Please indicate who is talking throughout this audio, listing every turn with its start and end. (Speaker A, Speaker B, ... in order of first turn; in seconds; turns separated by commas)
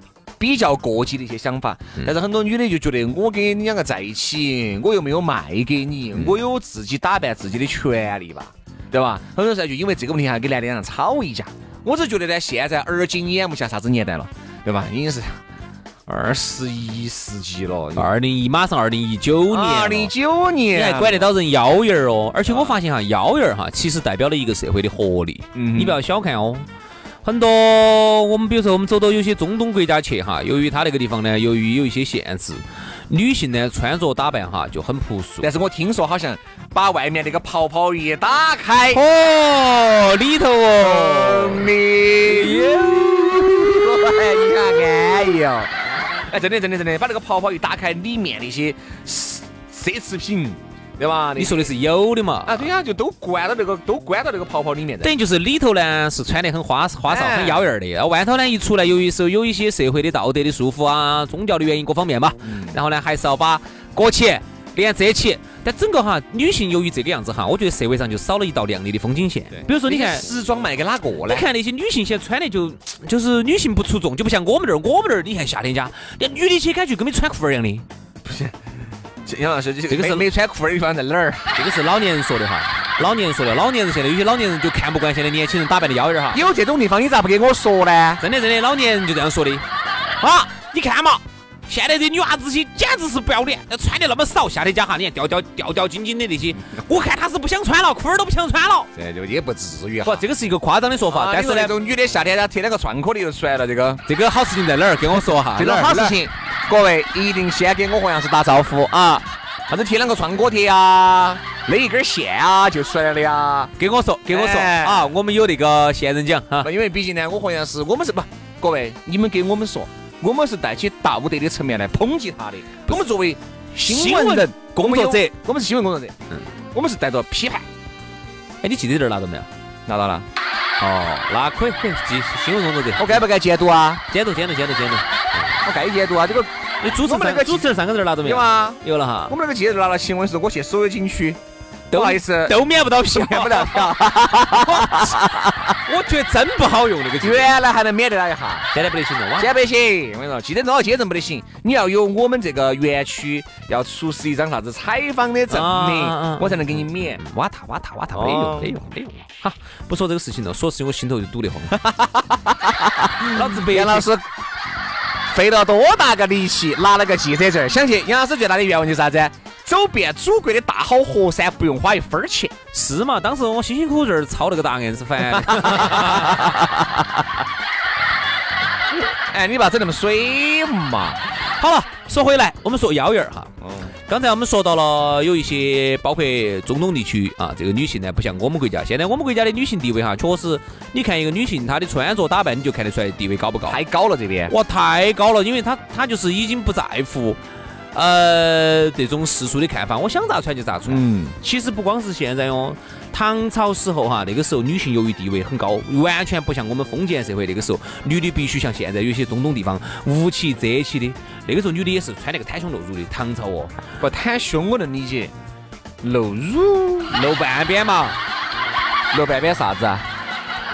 Speaker A: 0.4-15.4, Speaker A: 16.1-18.1, Speaker B: 18.0-20.1, Speaker A: 19.5-21.3, Speaker B: 20.7-26.6, Speaker A: 22.4-22.8, Speaker A: 25.5-26.0, Speaker B: 27.2-35.5, Speaker A: 35.4-39.0, Speaker B: 38.9-41.7, Speaker A: 40.8-45.7, Speaker B: 42.2-44.8, Speaker A: 46.3-51.7, Speaker B: 51.4-52.6, Speaker A: 52.4-55.1, Speaker B: 55.0-70.2, Speaker A: 57.1-57.7, Speaker A: 62.4-62.8, Speaker A: 69.5-71.4, Speaker B: 71.3-77.8, Speaker A: 78.2-78.5, Speaker A: 79.2-81.5, Speaker B: 79.9-80.2, Speaker B: 81.5-86.4, Speaker A: 86.3-88.2, Speaker B: 88.2-89.6, Speaker B: 90.2-98.9, Speaker A: 98.9-100.2, Speaker B: 100.0-101.7, Speaker A: 101.1-104.0, Speaker B: 104.0-106.2, Speaker A: 105.5-108.9, Speaker B: 108.8-109.2, Speaker A: 109.7-113.7, Speaker B: 113.8-116.7, Speaker A: 114.3-115.1, Speaker A: 116.6-126.1, Speaker B: 123.7-125.3, Speaker A: 126.7-127.6, Speaker B: 128.6-129.5, Speaker A: 129.9-130.2, Speaker B: 130.8-133.2, Speaker A: 133.0-134.0, Speaker B: 134.1-135.6, Speaker A: 135.6-136.5, Speaker B: 136.8-139.3, Speaker A: 137.0-141.4, Speaker B: 141.9-147.5, Speaker A: 141.9-145.6, Speaker A: 147.2-148.7, Speaker B: 148.7-149.5, Speaker A: 149.4-157.2, Speaker B: 155.5-161.8, Speaker A: 158.1-158.8, Speaker A: 161.7-164.2, Speaker B: 163.2-164.1, Speaker A: 165.3-172.5, Speaker B: 172.7-176.8, Speaker A: 175.3-176.6, Speaker A: 179.3-181.2, Speaker B: 181.6-183.5, Speaker A: 183.6-183.9, Speaker B: 184.1-193.8, Speaker A: 193.7-194.5, Speaker B: 194.5-197.4, Speaker B: 197.9-213.8, Speaker A: 200.9-201.3, Speaker A: 214.0-215.3, Speaker A: 216.0-217.2, Speaker B: 217.1-218.2, Speaker A: 219.1-220.0